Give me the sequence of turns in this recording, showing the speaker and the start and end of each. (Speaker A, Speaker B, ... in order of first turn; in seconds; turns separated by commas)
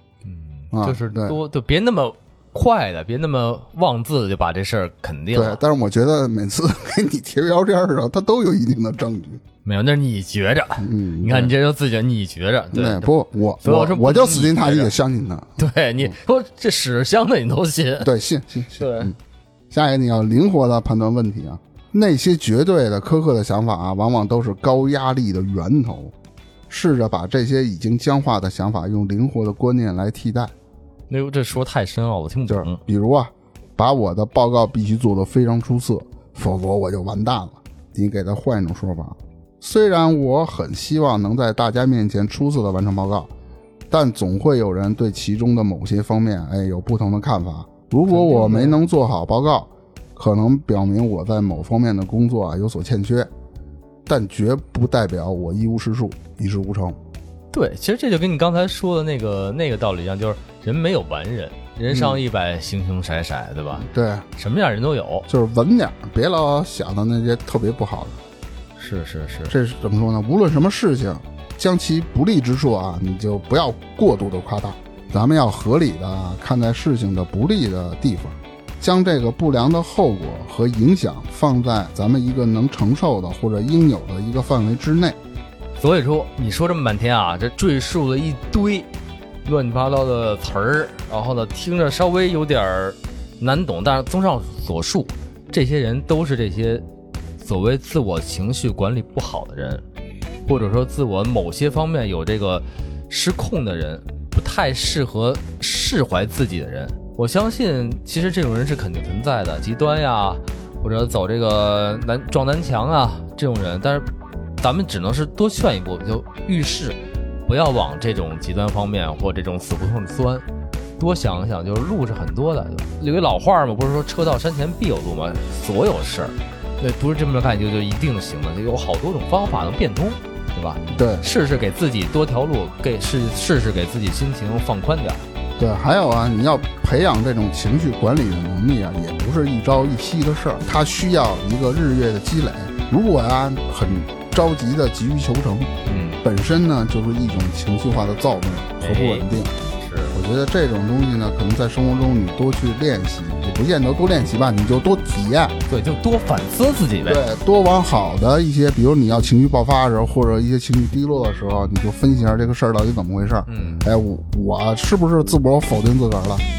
Speaker A: 0.2-5.6, Speaker B: 0.7-1.4, Speaker B: 5.3-9.4, Speaker A: 9.7-13.1, Speaker B: 10.8-11.5, Speaker B: 12.7-16.1, Speaker A: 13.6-14.9, Speaker A: 15.6-18.1, Speaker B: 18.0-19.1, Speaker A: 18.8-19.1, Speaker B: 19.7-26.1, Speaker B: 26.7-30.5, Speaker A: 31.1-32.8, Speaker B: 32.5-43.3, Speaker B: 43.9-53.3, Speaker A: 48.1-48.8, Speaker B: 54.1-57.0, Speaker A: 57.5-65.3, Speaker B: 61.9-62.2, Speaker B: 63.8-64.3, Speaker B: 65.3-68.2, Speaker A: 68.8-69.5, Speaker B: 69.5-85.2, Speaker A: 85.8-88.9, Speaker A: 89.5-96.8, Speaker A: 97.4-99.8, Speaker A: 100.5-114.1, Speaker A: 114.6-120.5, Speaker A: 121.0-135.2, Speaker B: 130.9-131.3, Speaker B: 135.6-149.5, Speaker A: 145.9-146.2, Speaker A: 148.8-149.3, Speaker A: 149.8-150.2, Speaker B: 150.1-155.6, Speaker A: 155.7-157.2, Speaker B: 157.1-166.4, Speaker A: 163.5-163.9